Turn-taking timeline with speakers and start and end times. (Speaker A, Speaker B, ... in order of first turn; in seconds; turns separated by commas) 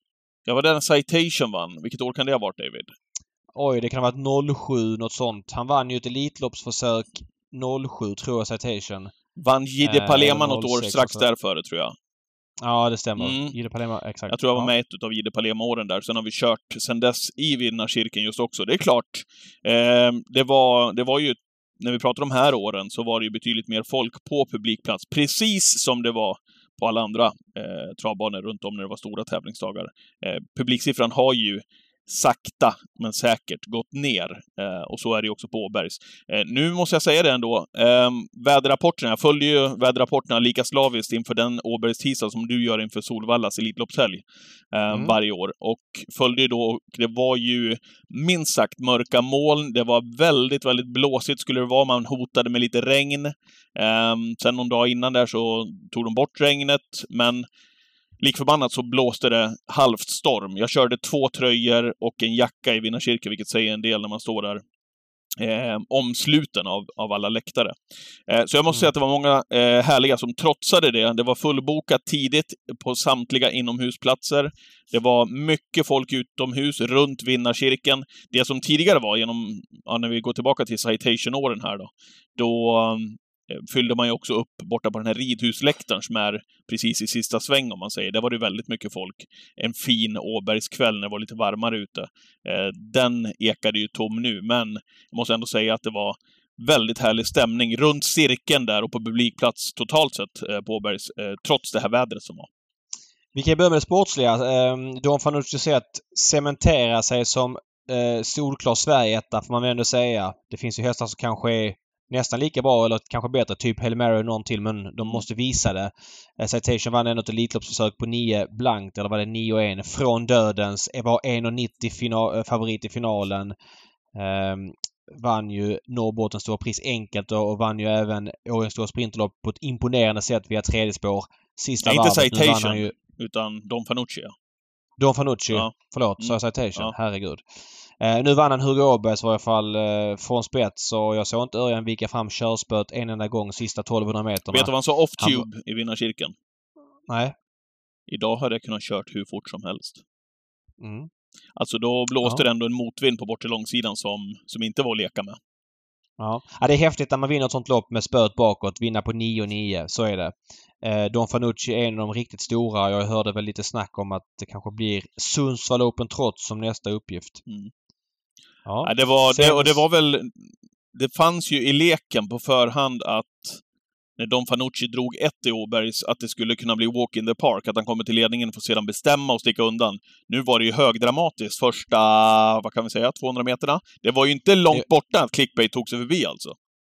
Speaker A: 0.5-2.9, Speaker B: 3.5-9.1, Speaker A: 9.4-11.9, Speaker B: 9.8-11.2, Speaker B: 12.6-14.7, Speaker A: 13.2-13.6, Speaker A: 14.3-57.5, Speaker B: 44.9-45.2, Speaker A: 58.2-64.6, Speaker A: 65.4-67.8, Speaker A: 68.3-102.5, Speaker B: 103.3-123.5, Speaker B: 124.1-132.9, Speaker A: 131.8-134.3, Speaker B: 135.0-137.4, Speaker A: 135.5-136.9, Speaker B: 138.0-145.5, Speaker A: 144.5-146.3, Speaker B: 147.1-147.3, Speaker A: 148.1-150.0, Speaker B: 150.8-151.1, Speaker A: 151.6-155.4, Speaker B: 156.2-167.4, Speaker B: 168.7-169.8, Speaker A: 168.8-173.6, Speaker A: 174.2-186.6